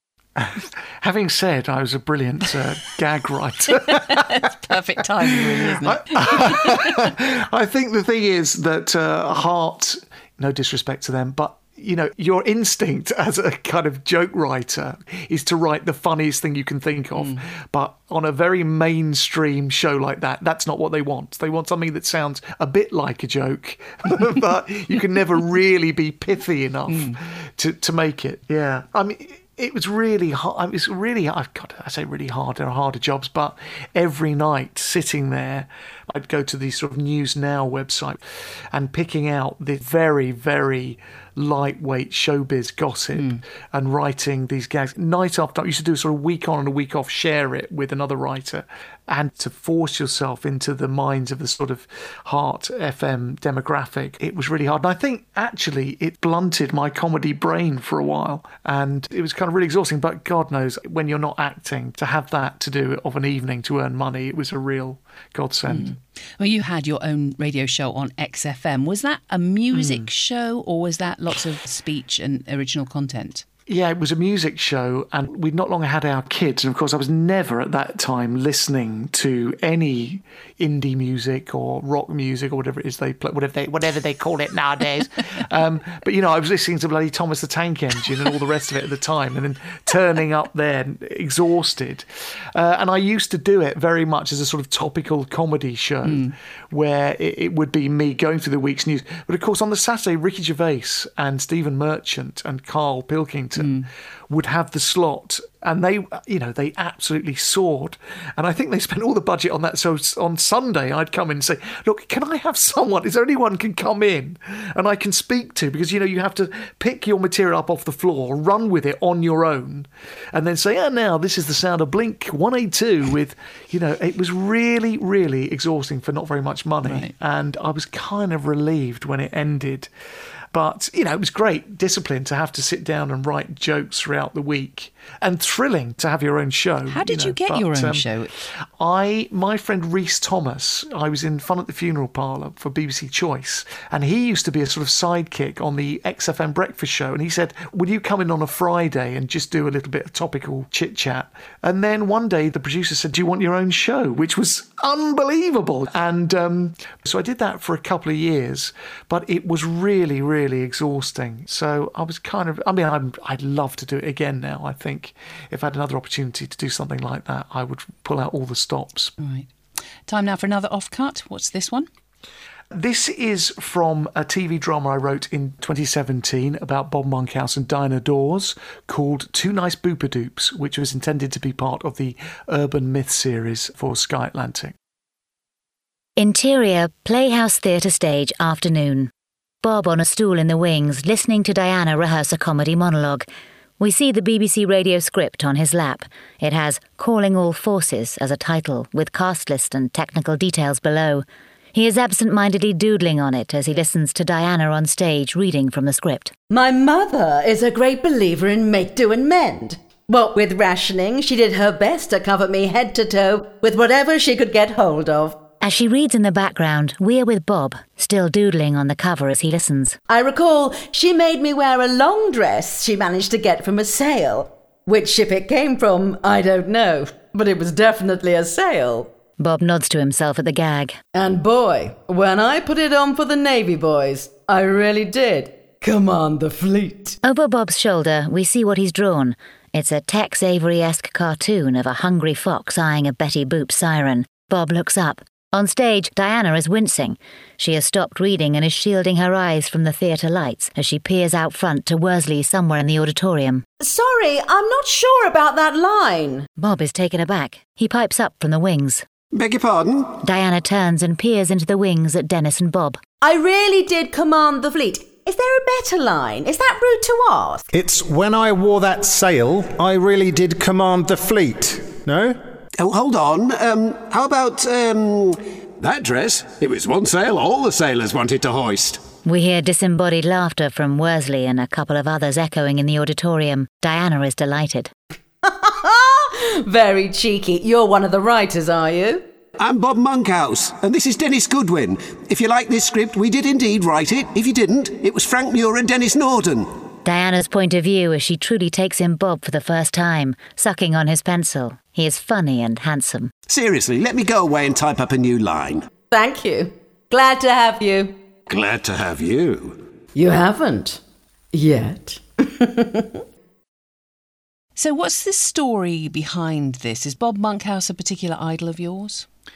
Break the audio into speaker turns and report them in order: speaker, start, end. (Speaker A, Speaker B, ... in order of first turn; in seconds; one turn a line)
Speaker A: 0.4-4.2
Speaker B: 3.8-7.1
Speaker A: 5.8-65.9
Speaker B: 26.9-27.2
Speaker B: 65.7-73.5
Speaker A: 69.8-70.1
Speaker A: 73.7-129.9
Speaker B: 96.0-96.3
Speaker B: 103.6-103.9
Speaker B: 126.8-127.1
Speaker A: 130.5-138.1
Speaker B: 136.9-138.3
Speaker A: 138.8-169.2
Speaker B: 169.2-169.5
Speaker B: 170.1-171.9
Speaker A: 172.7-184.7
Speaker C: 186.2-189.1
Speaker C: 189.6-193.3
Speaker C: 193.8-206.3
Speaker D: 206.5-215.4
Speaker C: 215.6-220.0
Speaker D: 220.1-229.1
Speaker C: 229.4-231.0
Speaker D: 231.1-237.2
Speaker C: 237.2-253.6
Speaker D: 253.8-256.5
Speaker C: 256.6-259.0
Speaker E: 259.3-260.2
Speaker C: 260.2-263.0
Speaker D: 263.2-267.7
Speaker F: 267.7-272.4
Speaker E: 272.8-279.0
Speaker C: 279.2-284.9
Speaker D: 285.4-289.2
Speaker E: 289.6-296.7
Speaker C: 297.1-303.3
Speaker E: 303.5-305.9
Speaker D: 306.1-308.2
Speaker E: 308.5-309.8
Speaker D: 310.1-311.0
Speaker D: 311.5-313.2
Speaker B: 314.8-319.3